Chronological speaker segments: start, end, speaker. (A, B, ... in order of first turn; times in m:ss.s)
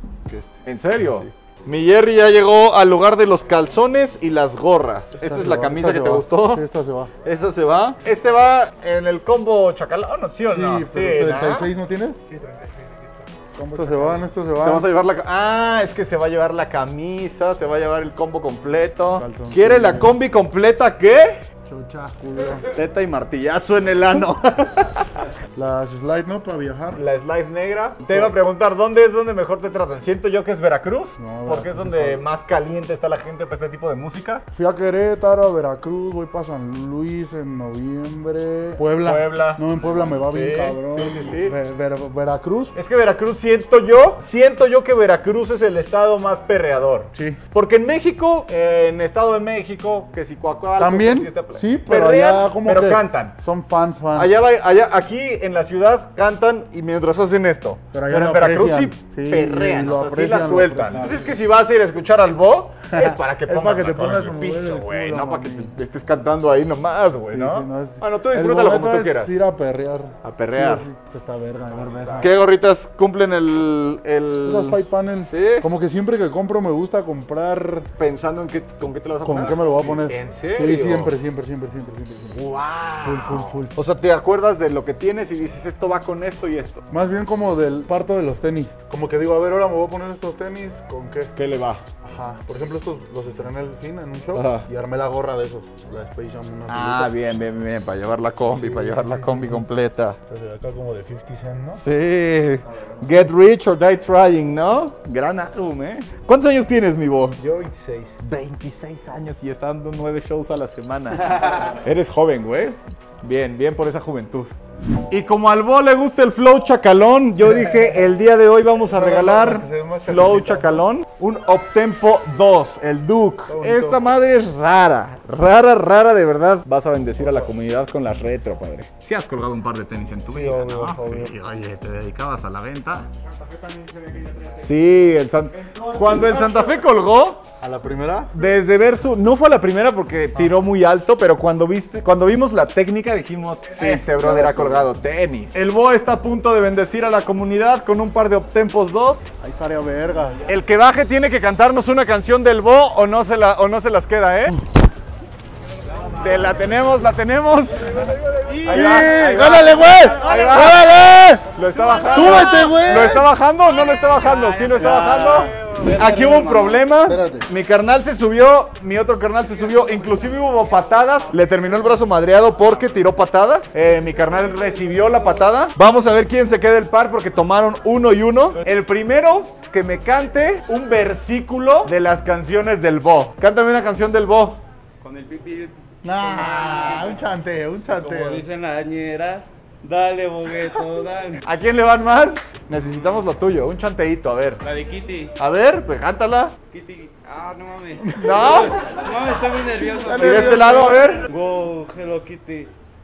0:00.2-0:01.3 A
0:00.6-0:06.6 B
0:05.1-0:07.1 A
0:07.2-0:11.7 B
0:10.4-0:12.2 A
0:12.3-0:13.1 B
0:13.5-0:14.9 A
0:13.7-0:21.4 B
0:19.1-0:20.2 A
0:21.6-0:22.7 A
0:22.6-0:25.1 B
0:25.5-0:27.0 A
0:26.9-0:34.4 B
0:28.1-0:28.4 A
0:31.2-0:32.3 A
0:34.5-0:42.8 A
0:39.0-0:41.6 B
0:42.7-0:53.4 B
0:47.1-0:47.4 A
0:50.8-0:54.4 A
0:54.1-1:09.3 B
0:57.9-1:01.4 A
1:02.9-1:05.7 A
1:07.3-1:12.3 A
1:10.2-1:10.9 B
1:12.1-1:15.7 B
1:14.4-1:17.9 A
1:18.0-1:21.1 B
1:19.2-1:22.5 A
1:22.3-1:26.8 B
1:23.0-1:23.8 A
1:26.9-1:31.3 A
1:31.4-1:31.8 B
1:32.0-1:37.4 A
1:34.3-1:34.6 B
1:36.7-1:40.2 B
1:38.5-1:39.6 A
1:40.2-1:41.8 A
1:41.8-1:47.4 B
1:43.1-1:43.3 A
1:47.4-1:48.2 A
1:48.2-1:54.5 B
1:55.1-2:13.1 B
1:57.4-1:58.1 A
1:58.8-2:00.8 A
2:03.4-2:04.1 A
2:07.2-2:07.5 A
2:10.2-2:11.4 A
2:14.4-2:17.4 B
2:17.6-2:18.3 A
2:18.3-2:29.2 B
2:20.3-2:20.6 A
2:23.7-2:24.9 A
2:29.4-2:30.4 A
2:30.4-2:34.6 B
2:36.2-3:04.6 B
2:38.5-2:39.1 C
2:38.7-2:41.4 A
2:41.8-2:42.4 C
2:42.0-2:43.3 A
2:44.0-2:46.9 C
2:44.8-2:45.7 A
2:47.0-2:47.5 A
3:05.0-3:07.2 C
3:06.0-3:08.4 A
3:07.9-3:11.4 C
3:11.4-3:14.6 B
3:14.6-3:15.3 C
3:15.4-3:16.5 B
3:16.7-3:22.7 C
3:18.0-3:18.5 A
3:18.2-3:18.9 B
3:19.9-3:21.1 A
3:20.2-3:21.2 B